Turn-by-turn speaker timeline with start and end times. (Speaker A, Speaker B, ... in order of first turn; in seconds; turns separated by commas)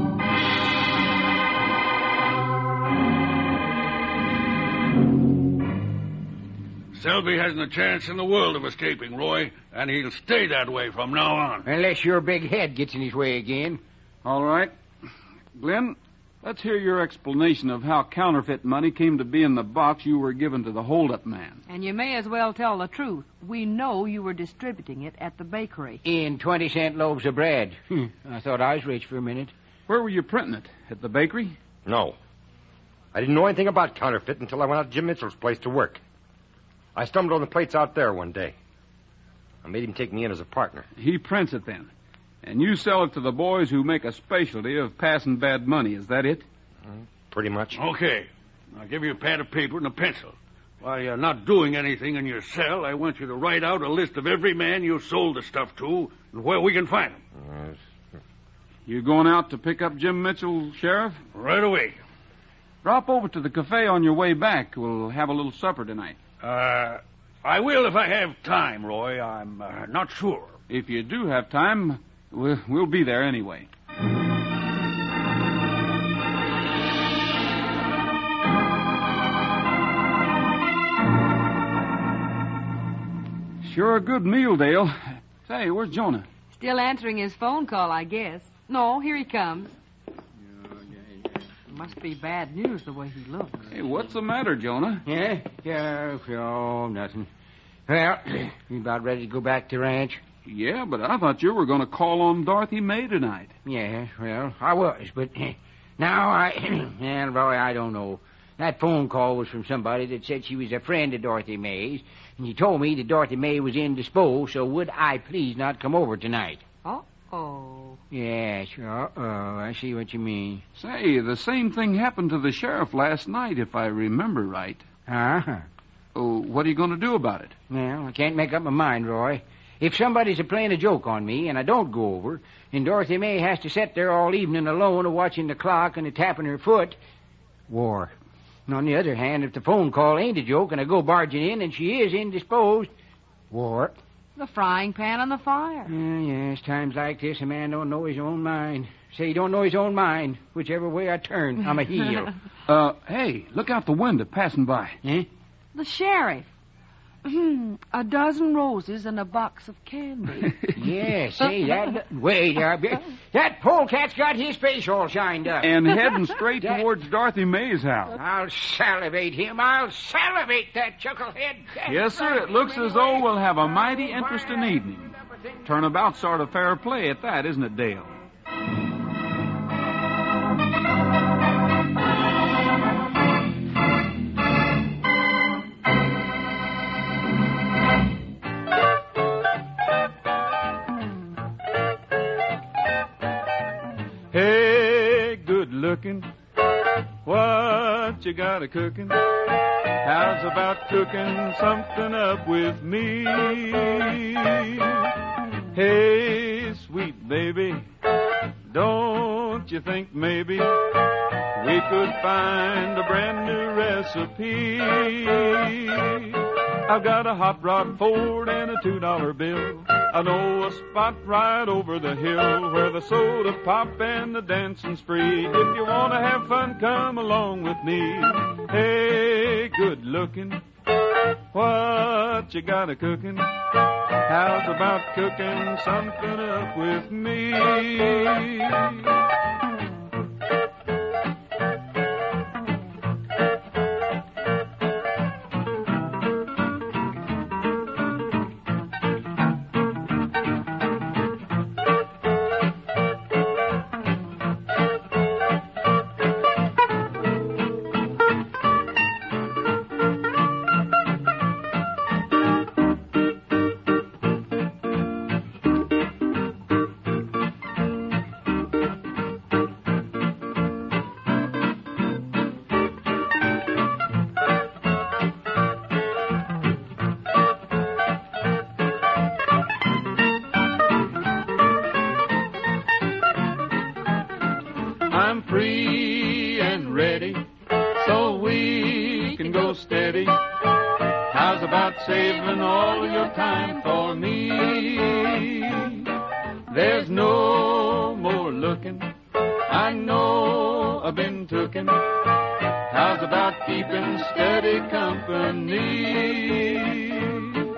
Speaker A: 6.9-11.7, Speaker B: 11.6-13.8, Speaker C: 14.2-14.7, Speaker C: 15.6-21.6, Speaker D: 21.7-26.0, Speaker B: 26.0-29.5, Speaker C: 29.9-31.6, Speaker E: 31.9-32.2, Speaker E: 33.1-36.0, Speaker E: 37.0-38.5, Speaker E: 39.6-40.9, Speaker C: 41.0-41.9, Speaker C: 42.4-46.5, Speaker E: 47.3-47.8, Speaker A: 47.8-57.2, Speaker E: 57.4-57.8, Speaker C: 58.9-61.2, Speaker A: 61.3-62.0, Speaker C: 62.8-66.2, Speaker A: 66.4-70.6, Speaker C: 70.7-73.7, Speaker C: 83.6-86.3, Speaker D: 86.5-89.8, Speaker D: 91.7-93.7, Speaker C: 93.7-95.1, Speaker B: 95.0-97.3, Speaker B: 97.9-100.2, Speaker C: 100.5-103.5, Speaker B: 103.7-116.6, Speaker D: 116.8-118.0, Speaker B: 118.1-120.6, Speaker C: 120.8-124.8, Speaker B: 125.1-125.7, Speaker C: 126.2-127.5, Speaker B: 127.7-137.0, Speaker B: 137.7-138.2, Speaker B: 138.7-142.9, Speaker B: 143.5-144.0, Speaker D: 144.4-145.9, Speaker B: 145.9-152.3, Speaker C: 152.7-155.0, Speaker B: 155.0-155.3, Speaker D: 155.7-156.5, Speaker D: 157.2-160.7, Speaker B: 160.8-165.9, Speaker C: 165.6-168.2, Speaker B: 166.6-166.9, Speaker B: 168.1-175.6, Speaker C: 171.9-175.1, Speaker C: 175.6-178.2, Speaker C: 194.3-196.3, Speaker C: 197.2-199.2, Speaker C: 200.0-205.0, Speaker C: 205.7-207.8, Speaker C: 208.7-210.7, Speaker C: 211.6-230.6, Speaker C: 231.5-233.5, Speaker C: 234.3-239.0, Speaker C: 285.1-287.4, Speaker C: 288.0-290.4, Speaker C: 291.3-296.1, Speaker C: 296.7-299.1, Speaker C: 299.7-302.0, Speaker C: 302.9-307.6